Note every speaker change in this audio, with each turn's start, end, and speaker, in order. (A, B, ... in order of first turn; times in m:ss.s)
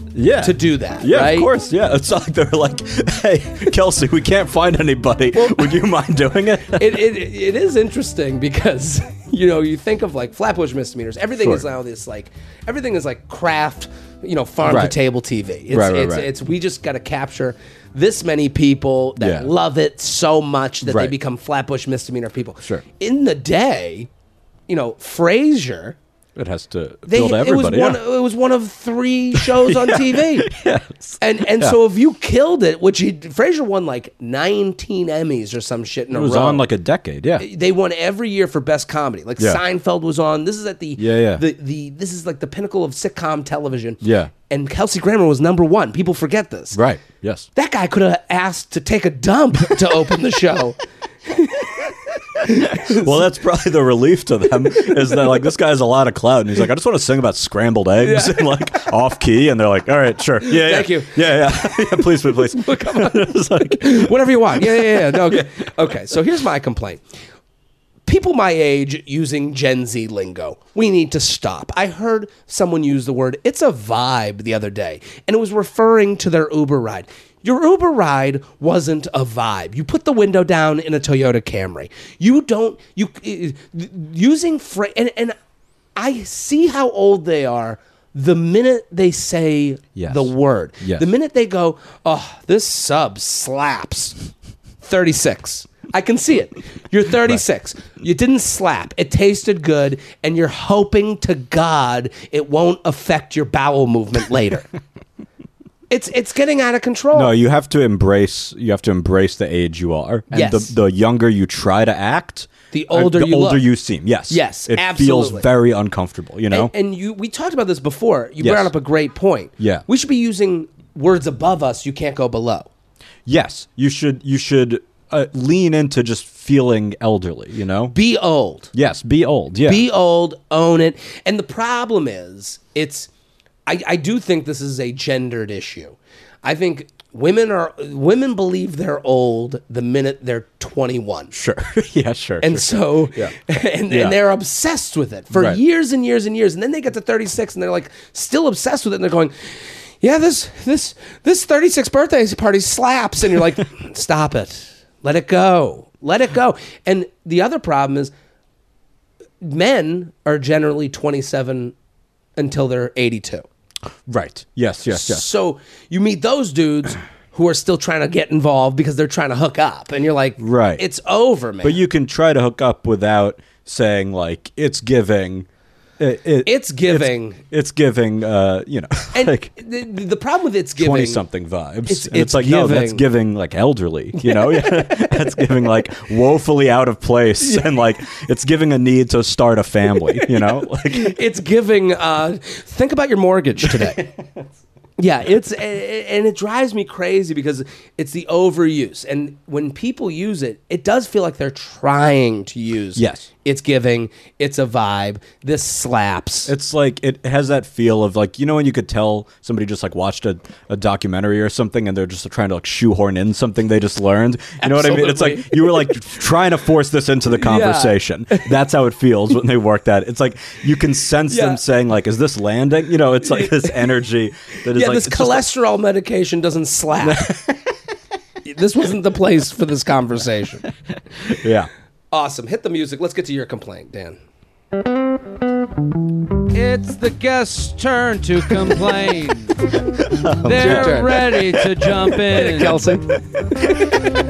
0:00.2-0:07.0 A
0:00.4-0:01.5 B
0:06.8-0:24.1 B
0:14.6-0:15.0 A
0:15.7-0:16.3 A
0:19.2-0:19.5 A
0:20.8-0:21.1 A
0:24.7-0:26.0 B
0:26.4-0:28.0 A
0:27.1-0:30.5 B
0:29.4-0:31.8 A
0:31.2-0:36.7 B
0:36.1-0:37.4 A
0:37.4-0:46.8 B
0:41.0-0:41.4 A
0:44.0-0:44.3 A
0:46.7-0:47.5 A
0:47.6-0:53.2 B
0:52.4-1:05.5 A
0:54.8-0:55.5 B
0:58.0-0:58.5 B
1:00.4-1:07.0 B
1:08.1-1:25.4 B
1:26.0-1:34.2 B
1:30.0-1:31.1 A
1:34.8-1:44.7 B
1:45.9-1:47.3 B
1:47.1-1:56.7 A
1:50.3-1:50.8 B
1:52.7-1:53.7 B
1:54.3-1:55.5 B
1:56.5-2:02.7 B
1:58.4-1:58.7 A
1:59.6-1:59.8 A
2:03.3-2:08.0 A
2:07.9-2:08.7 B
2:08.7-2:09.8 A
2:09.7-2:13.1 B
2:13.7-2:21.3 B
2:21.3-2:23.4 A
2:22.4-2:38.1 B
2:23.9-2:24.2 A
2:25.4-2:25.6 A
2:39.4-2:41.8 B
2:42.4-2:43.4 B
2:44.1-2:45.2 A
2:44.9-2:51.8 B
2:50.4-2:50.8 A
2:51.6-2:55.5 A
2:56.0-2:59.5 A
2:56.4-2:57.4 B
2:59.1-3:01.2 B
3:00.8-3:11.2 A
3:01.9-3:03.0 B
3:04.1-3:05.5 B
3:07.4-3:07.7 B
3:10.1-3:14.1 B
3:13.6-3:14.4 A
3:15.0-3:26.5 B
3:23.0-3:23.3 A
3:26.5-3:45.4 A
3:34.6-3:36.1 B
3:37.3-3:38.6 B
3:41.3-3:41.6 B
3:43.3-3:43.9 B
3:44.6-3:47.3 B
3:47.0-3:47.8 A
3:48.4-3:50.7 B
3:51.3-3:51.7 A
3:52.1-3:54.2 B
3:56.5-3:59.7 C
4:00.1-4:02.9 A
4:00.4-4:03.0 C
4:00.5-4:01.1 B
4:02.6-4:03.0 B
4:03.6-4:04.2 A